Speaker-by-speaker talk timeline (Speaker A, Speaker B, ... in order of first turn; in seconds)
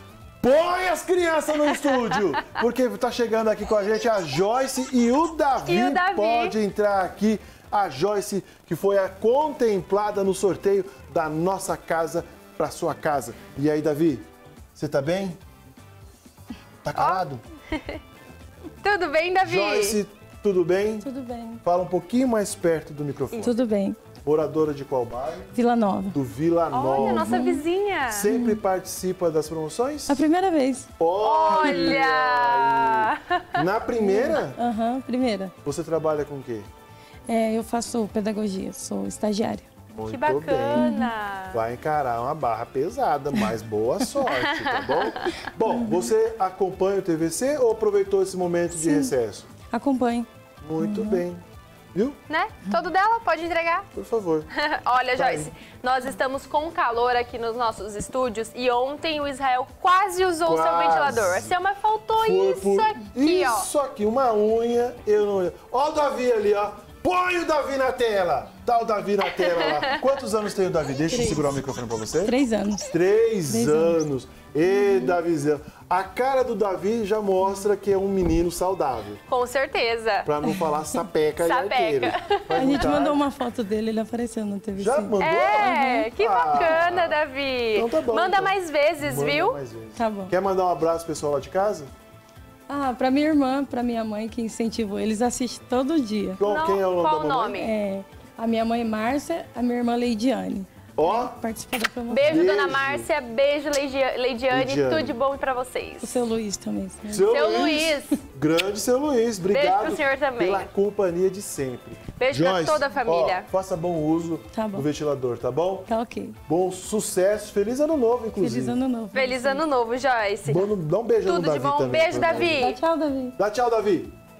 Speaker A: 0.4-15.4, 16.8-17.4, 19.4-21.1, 21.6-23.6, 24.2-25.6, 26.1-27.4, 28.1-30.2, 31.0-34.6, 35.6-36.7, 39.9-40.9, 41.5-49.5, 50.6-51.4, 53.9-54.5, 55.1-55.5, 60.4-61.5, 62.2-72.4, 72.9-79.2, 80.2-83.2, 84.8-87.2, 87.7-91.9, 96.4-97.6, 101.0-101.4, 102.2-103.1, 104.5-105.2, 107.1-115.9, 116.5-118.8, 120.5-122.7, 123.4-124.1
Speaker B: 1.7-2.2, 5.6-6.5, 16.9-18.0, 18.8-20.0, 26.7-28.3, 31.2-33.6, 40.1-41.6, 44.2-45.4, 52.3-53.9, 54.5-63.7, 69.3-69.9, 79.3-80.3, 81.4-83.0, 85.2-89.5, 96.4-97.7, 102.1-106.2, 107.2-108.2, 109.5-110.7, 112.2-113.5, 119.1-120.7, 121.2-122.8
Speaker C: 21.0-21.6, 23.4-24.0, 25.5-26.2, 27.0-27.6, 28.3-28.6, 30.1-30.9, 31.6-31.9, 34.0-35.5, 37.3-39.6, 40.7-41.1, 48.7-49.1, 49.7-50.3, 50.8-51.2, 71.1-71.5, 72.2-72.9, 73.5-74.0, 74.7-75.2, 82.5-86.6, 90.0-90.3, 92.7-96.4, 97.5-102.6, 106.0-107.9, 114.5-114.8, 115.9-116.4, 118.4-119.6, 122.4-123.3